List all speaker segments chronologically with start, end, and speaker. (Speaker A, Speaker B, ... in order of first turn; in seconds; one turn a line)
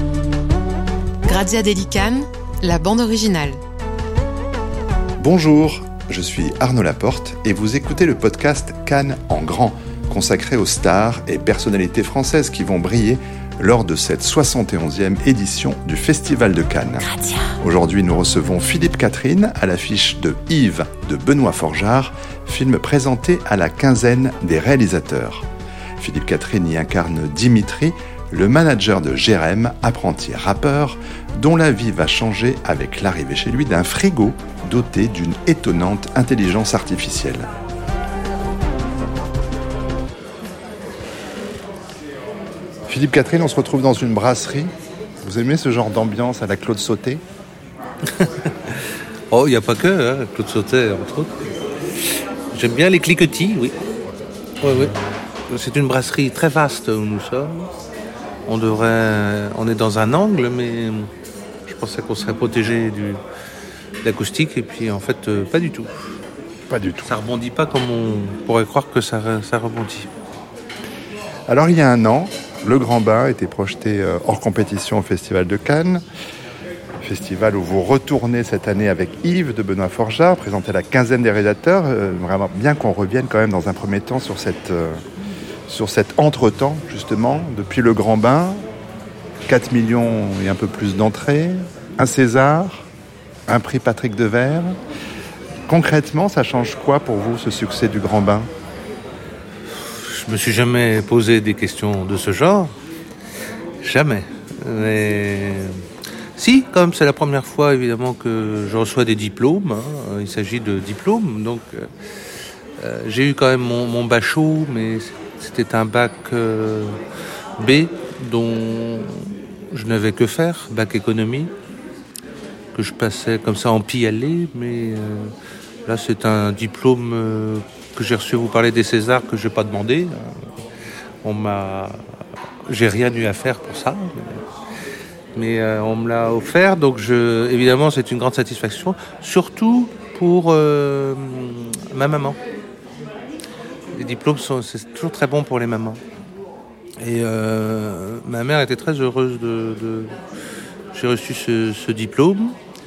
Speaker A: 1.2-3.6
Speaker B: 5.2-25.4
Speaker A: 17.0-17.6
Speaker B: 26.0-37.5
Speaker B: 42.9-47.2
Speaker C: 48.0-51.4
Speaker C: 52.0-53.8
Speaker C: 54.6-55.0
Speaker C: 55.5-57.7
Speaker C: 58.5-61.1
Speaker C: 61.6-63.2
Speaker C: 64.0-66.1
Speaker B: 66.7-67.1
Speaker C: 67.0-70.1
Speaker B: 71.5-76.0
Speaker B: 77.0-85.0
Speaker B: 85.7-88.6
Speaker B: 89.5-92.9
Speaker B: 93.5-94.8
Speaker B: 95.7-98.5
Speaker C: 99.8-102.7
Speaker C: 103.8-105.8
Speaker C: 106.3-111.9
Speaker C: 112.8-117.0
Speaker C: 117.6-121.5
Speaker C: 122.7-125.3
Speaker C: 125.8-130.5
Speaker C: 131.2-132.0
Speaker C: 132.7-134.4
Speaker C: 135.3-142.4
Speaker C: 143.9-146.0
Speaker C: 147.0-150.1
Speaker C: 150.9-152.6